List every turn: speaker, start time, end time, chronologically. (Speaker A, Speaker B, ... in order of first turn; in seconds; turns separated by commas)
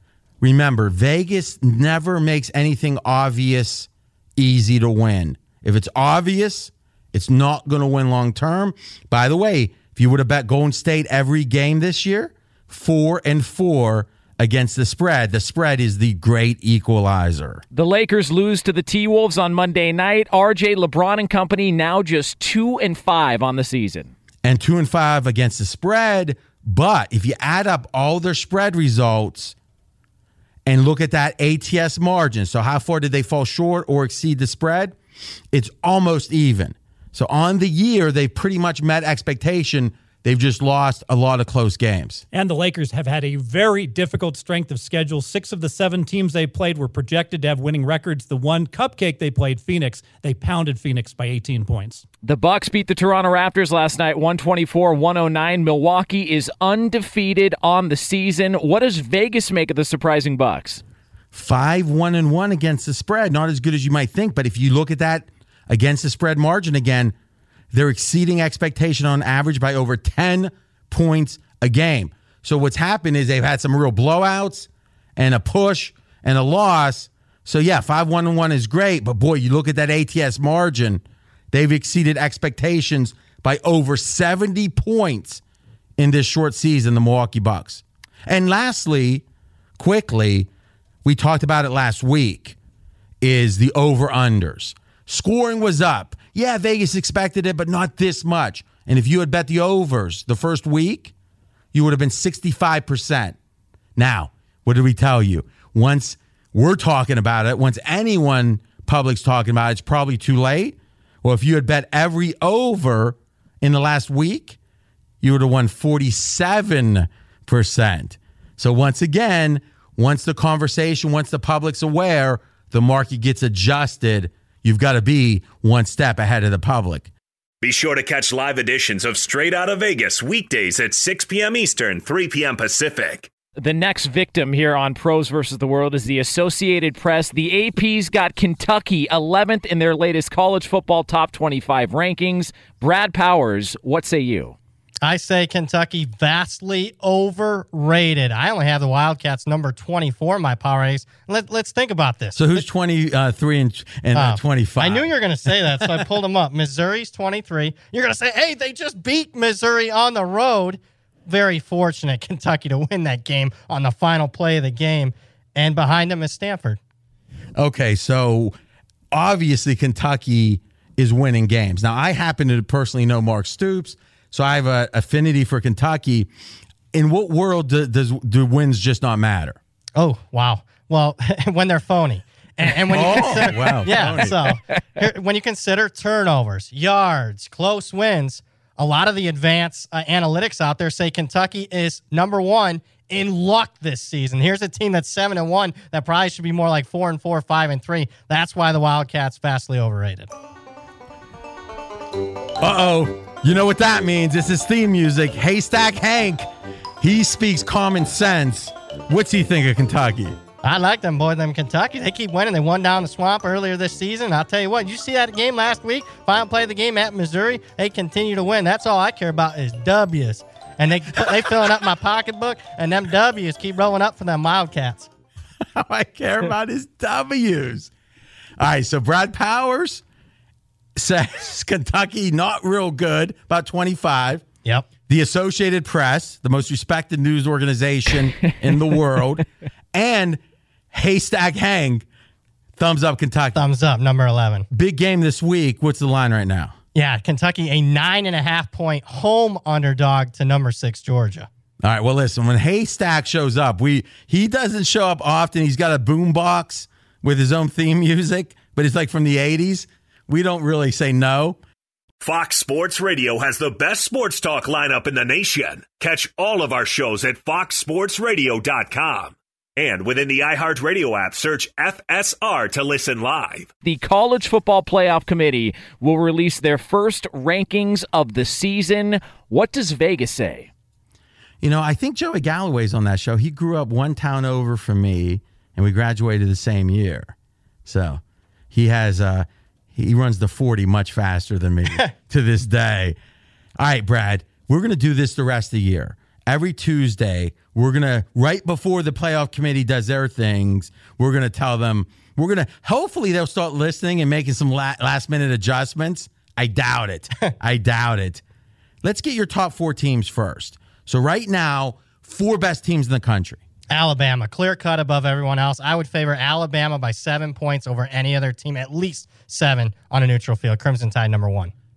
Speaker A: 0.4-17.6, Speaker B: 17.7-24.1, Speaker A: 24.4-29.5, Speaker A: 30.6-35.0, Speaker A: 35.5-42.2, Speaker C: 42.3-52.0, Speaker B: 52.2-60.8, Speaker A: 61.3-67.1, Speaker A: 67.7-81.0, Speaker A: 81.5-85.4, Speaker A: 86.0-89.2, Speaker A: 89.8-90.5, Speaker A: 91.0-92.5, Speaker A: 93.2-101.1, Speaker A: 101.7-103.3, Speaker A: 104.0-114.6, Speaker A: 115.2-127.1, Speaker D: 127.6-133.3, Speaker B: 133.6-144.5, Speaker E: 145.0-152.7, Speaker A: 152.3-156.0, Speaker E: 154.1-166.8, Speaker A: 167.6-168.5, Speaker A: 169.1-176.3, Speaker A: 176.9-179.6, Speaker E: 179.9-200.3, Speaker A: 182.9-184.4, Speaker A: 202.6-206.5, Speaker A: 207.0-210.4, Speaker E: 210.6-225.1, Speaker A: 225.7-227.9, Speaker A: 228.6-230.0, Speaker A: 231.0-234.4, Speaker A: 235.1-240.4, Speaker A: 240.9-242.0, Speaker A: 242.8-243.6, Speaker E: 243.5-244.7, Speaker A: 244.7-246.7, Speaker E: 246.9-251.5, Speaker A: 251.8-261.6, Speaker D: 262.2-273.7, Speaker B: 273.8-280.7, Speaker A: 281.6-287.3, Speaker A: 287.9-288.2, Speaker A: 288.7-293.2, Speaker A: 293.8-308.4, Speaker A: 309.0-313.6, Speaker E: 313.9-321.7